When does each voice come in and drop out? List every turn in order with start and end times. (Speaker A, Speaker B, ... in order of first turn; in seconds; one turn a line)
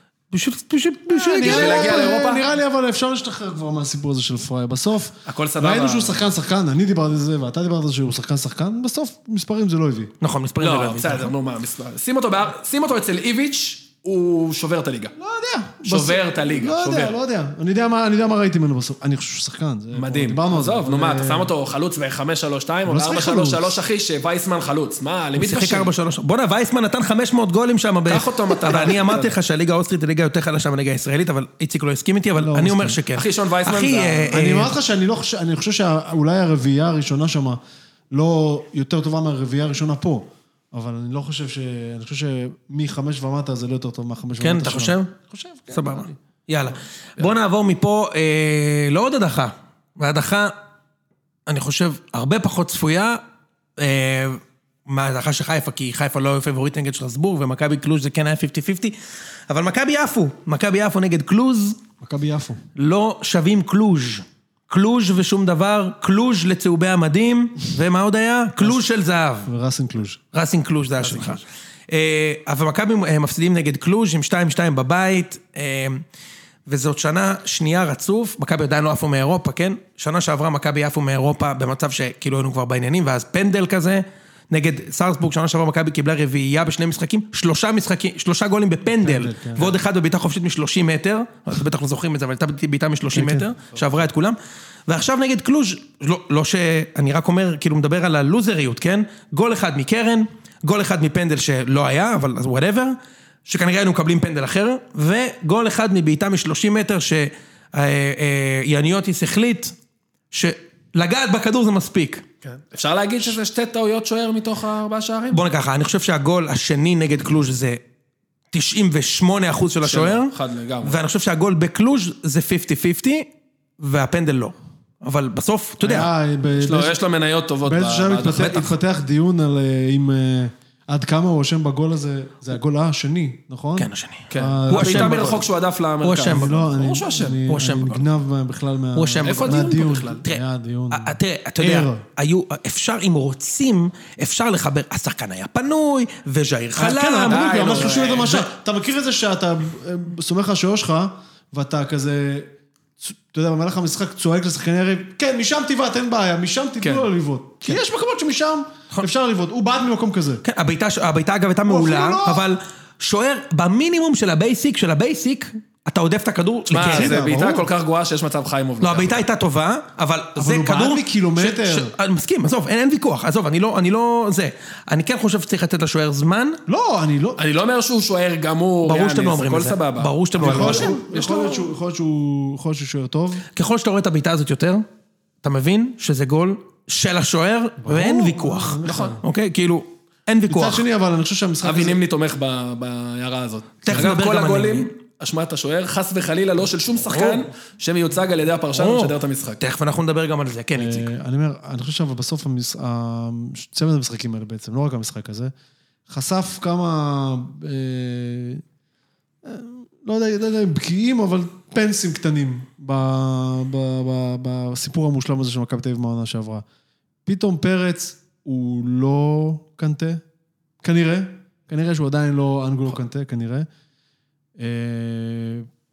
Speaker A: 0.3-2.0
Speaker B: 1.1-10.1
Speaker C: 1.4-2.4
Speaker C: 5.3-6.3
Speaker A: 10.2-11.3
Speaker C: 10.6-15.2
Speaker B: 15.2-21.5
Speaker C: 15.8-17.1
Speaker C: 19.9-25.9
Speaker B: 22.9-23.8
Speaker A: 25.4-34.7
Speaker C: 28.1-29.4
Speaker B: 32.4-33.0
Speaker C: 33.1-34.4
Speaker B: 34.3-37.6
Speaker B: 38.1-46.1
Speaker A: 44.4-45.1
Speaker A: 45.7-50.5
Speaker A: 51.5-53.2
Speaker A: 53.8-59.0
Speaker A: 59.5-61.8
Speaker B: 62.0-62.6
Speaker A: 62.8-69.5
Speaker B: 69.4-70.2
Speaker A: 70.3-76.0
Speaker B: 71.0-71.4
Speaker A: 76.7-109.7
Speaker B: 89.0-89.8
Speaker B: 93.1-93.5
Speaker A: 110.3-112.2
Speaker C: 112.4-115.4
Speaker A: 115.3-117.8
Speaker A: 118.5-126.1
Speaker C: 119.8-121.0
Speaker B: 125.8-127.0
Speaker C: 126.6-128.7
Speaker B: 127.6-135.4
Speaker A: 133.8-135.4
Speaker C: 134.3-137.4
Speaker A: 136.0-136.5
Speaker B: 136.2-142.1
Speaker A: 137.5-138.0
Speaker A: 138.9-148.5
Speaker C: 139.2-140.2
Speaker B: 146.8-160.4
Speaker C: 147.3-148.4
Speaker C: 156.8-157.1
Speaker A: 160.4-167.2
Speaker B: 161.7-162.5
Speaker C: 166.7-169.2
Speaker B: 166.8-167.7
Speaker A: 168.8-176.6
Speaker B: 170.4-171.9
Speaker B: 176.7-177.4
Speaker C: 177.4-181.5
Speaker A: 178.8-181.5
Speaker B: 180.4-183.5
Speaker A: 183.6-184.8
Speaker A: 185.4-190.8
Speaker B: 187.8-189.2
Speaker C: 188.8-189.2
Speaker B: 190.5-192.0
Speaker C: 191.6-199.6
Speaker A: 193.8-194.9
Speaker A: 197.1-197.4
Speaker A: 198.7-201.1
Speaker B: 200.8-205.5
Speaker B: 206.1-208.6
Speaker B: 209.4-216.7
Speaker B: 217.3-220.2
Speaker B: 220.8-223.7
Speaker B: 224.6-225.7